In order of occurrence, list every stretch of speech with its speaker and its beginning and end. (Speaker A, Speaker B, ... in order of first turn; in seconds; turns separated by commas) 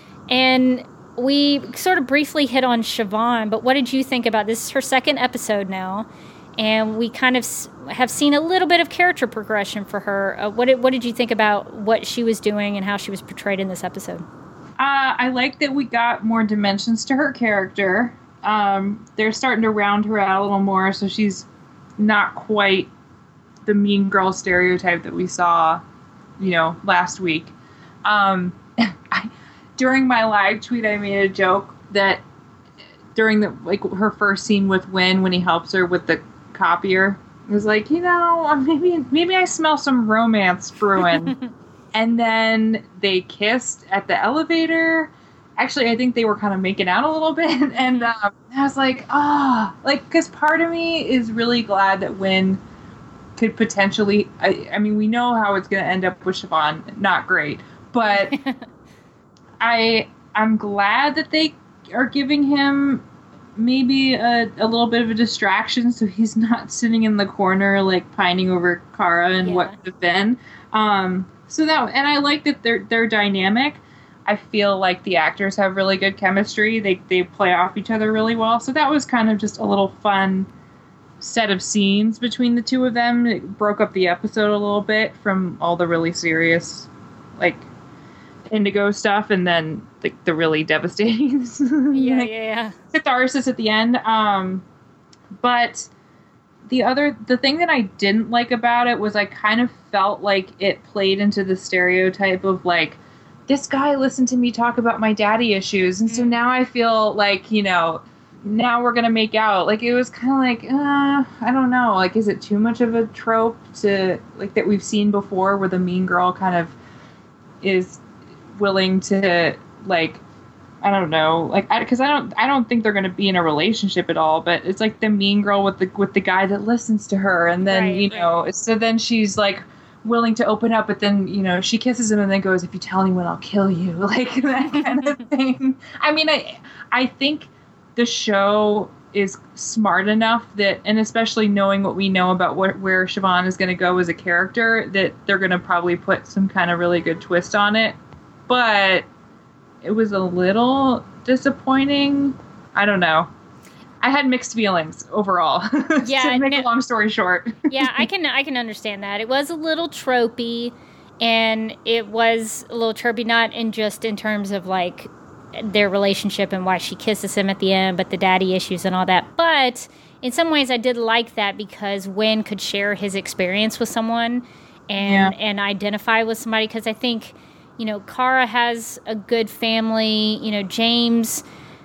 Speaker A: 0.3-6.1, Speaker A: 6.6-14.2, Speaker B: 14.8-21.5, Speaker B: 22.0-22.9, Speaker B: 23.6-25.8, Speaker B: 26.4-27.5, Speaker B: 28.1-32.2, Speaker B: 33.1-41.4, Speaker A: 41.3-41.5, Speaker B: 41.9-52.6, Speaker B: 53.4-58.4, Speaker A: 58.3-58.6, Speaker B: 59.6-63.0, Speaker B: 63.6-80.5, Speaker A: 69.4-69.8, Speaker B: 81.2-87.7, Speaker B: 88.5-92.3, Speaker A: 91.9-92.8, Speaker B: 92.9-94.6, Speaker B: 95.4-95.9, Speaker B: 96.7-116.7, Speaker A: 106.1-106.3, Speaker B: 117.6-118.0, Speaker B: 118.6-120.2, Speaker B: 120.8-147.9, Speaker A: 127.7-128.3, Speaker B: 148.5-149.1, Speaker B: 149.8-153.3, Speaker B: 154.0-158.1, Speaker A: 156.0-156.7, Speaker A: 157.7-181.4, Speaker B: 175.0-175.3